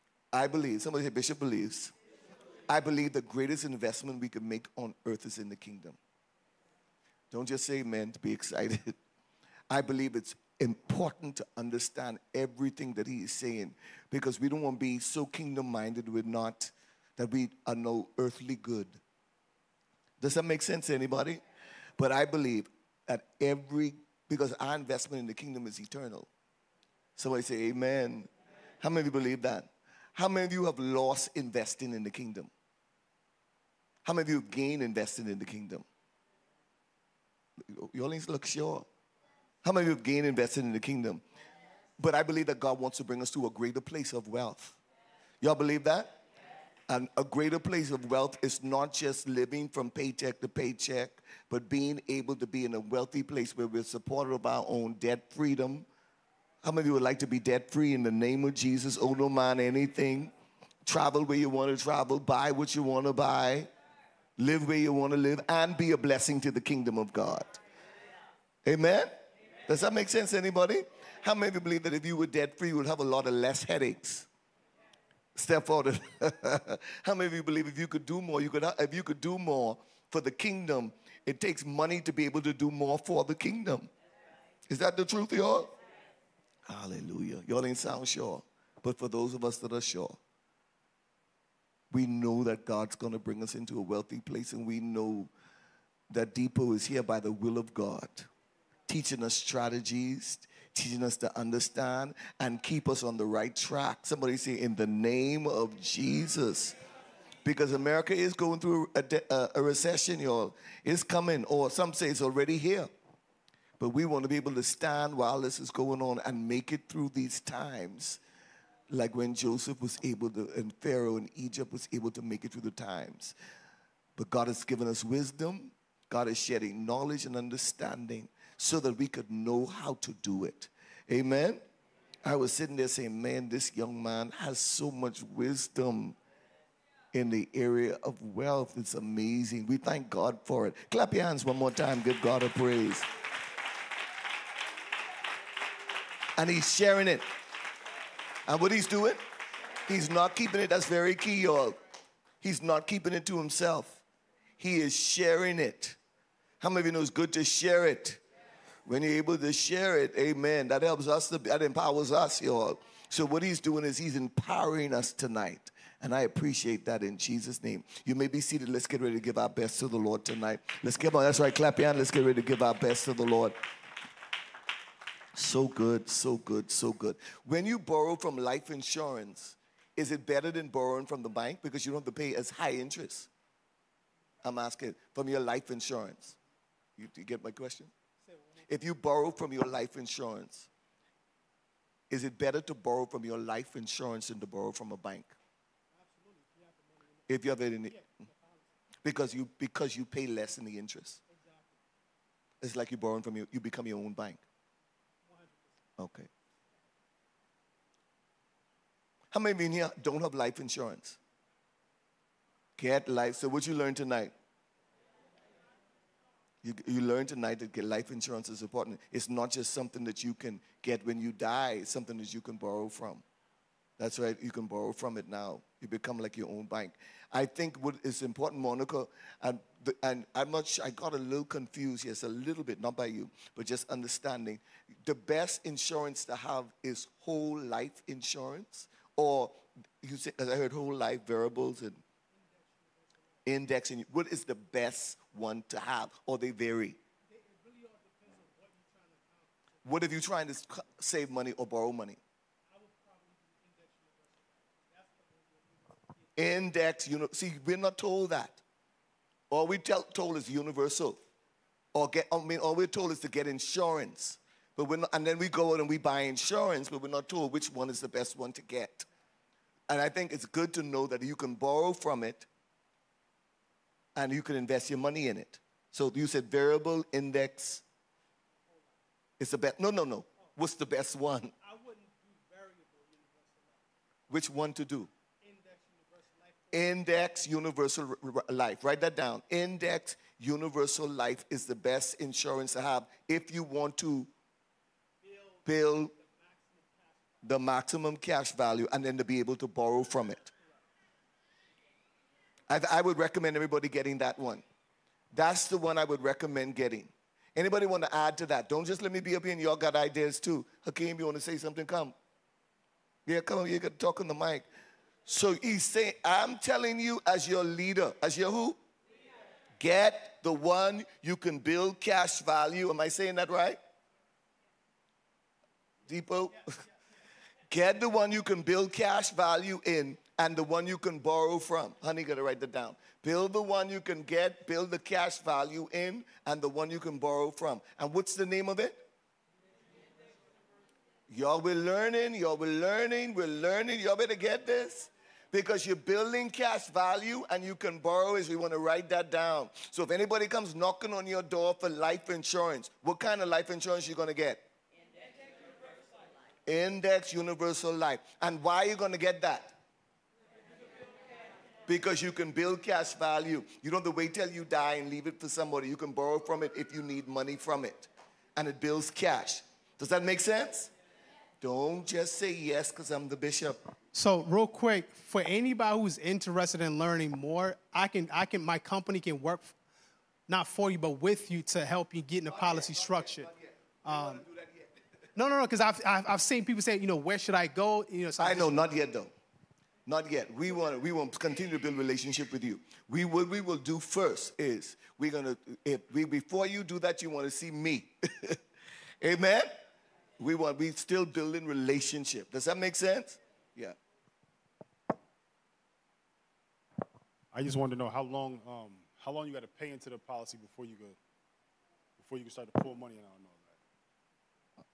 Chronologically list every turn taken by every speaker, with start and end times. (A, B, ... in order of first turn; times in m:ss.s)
0:00.3-0:01.9 A
0:02.7-0:06.0 A
0:07.3-0:09.0 A
0:09.7-0:19.0 A
0:20.2-0:21.4 A
0:22.0-0:26.3 A
0:27.2-0:28.3 A
0:28.8-0:32.5 A
0:34.0-0:35.9 A
0:37.6-0:38.9 A
0:39.6-0:41.2 A
0:42.0-0:44.8 A
0:45.4-0:46.2 A
0:46.9-0:55.9 A
0:56.6-1:00.3 A
1:00.9-1:03.7 A
1:04.4-1:07.6 A
1:08.6-1:14.3 A
1:15.4-1:23.9 A
1:24.7-1:25.7 A
1:26.7-1:30.2 A
1:31.9-1:35.3 A
1:36.1-1:38.3 A
1:38.9-1:46.8 A
1:47.4-1:52.9 A
1:53.8-1:58.2 A
1:58.9-2:03.4 A
2:04.2-2:11.6 A
2:12.2-2:16.2 A
2:17.1-2:23.1 A
2:26.4-2:27.2 A
2:28.4-2:29.2 A
2:29.9-2:31.8 A
2:32.4-2:34.0 A
2:34.6-2:36.0 A
2:36.6-2:38.2 A
2:38.9-2:53.6 A
2:55.3-3:03.3 A
3:04.4-3:06.4 A
3:07.0-3:07.9 A
3:08.7-3:10.7 A
3:12.1-3:15.4 A
3:16.2-3:16.8 B
3:17.3-3:18.1 A
3:19.0-3:21.2 A
3:22.6-3:24.4 A
3:26.0-3:26.3 A
3:29.3-3:31.2 A
3:32.8-3:34.4 A
3:36.6-3:43.2 A
3:44.0-4:02.0 A
4:03.4-4:07.0 A
4:07.7-4:09.2 B
4:09.8-4:12.2 A
4:12.9-4:14.0 B
4:16.4-4:18.6 A
4:19.5-4:21.2 A
4:21.9-4:29.1 A
4:29.9-4:32.5 A
4:34.2-4:37.8 A
4:39.4-4:41.5 A
4:41.7-4:43.7 B
4:44.3-4:45.1 A
4:45.4-4:46.7 B
4:46.7-4:54.3 A
4:55.3-4:55.6 B
4:55.6-4:56.1 A
4:57.4-5:00.5 A
5:02.7-5:04.6 A
5:05.3-5:12.2 A
5:13.3-5:14.7 A
5:15.3-5:18.8 A
5:19.8-5:23.8 A
5:26.1-5:26.8 A
5:27.7-5:39.0 A
5:41.3-5:54.6 A
5:56.7-5:59.8 A
6:01.9-6:10.9 A
6:11.6-6:13.8 A
6:14.1-6:19.7 B
6:20.5-6:23.5 B
6:22.5-6:24.9 A
6:24.0-6:24.4 B
6:25.4-6:28.8 B
6:28.4-6:29.3 A
6:30.1-6:38.6 A
6:39.2-6:39.8 A
6:40.4-6:44.0 A
6:47.5-6:51.2 C
6:52.2-6:53.8 C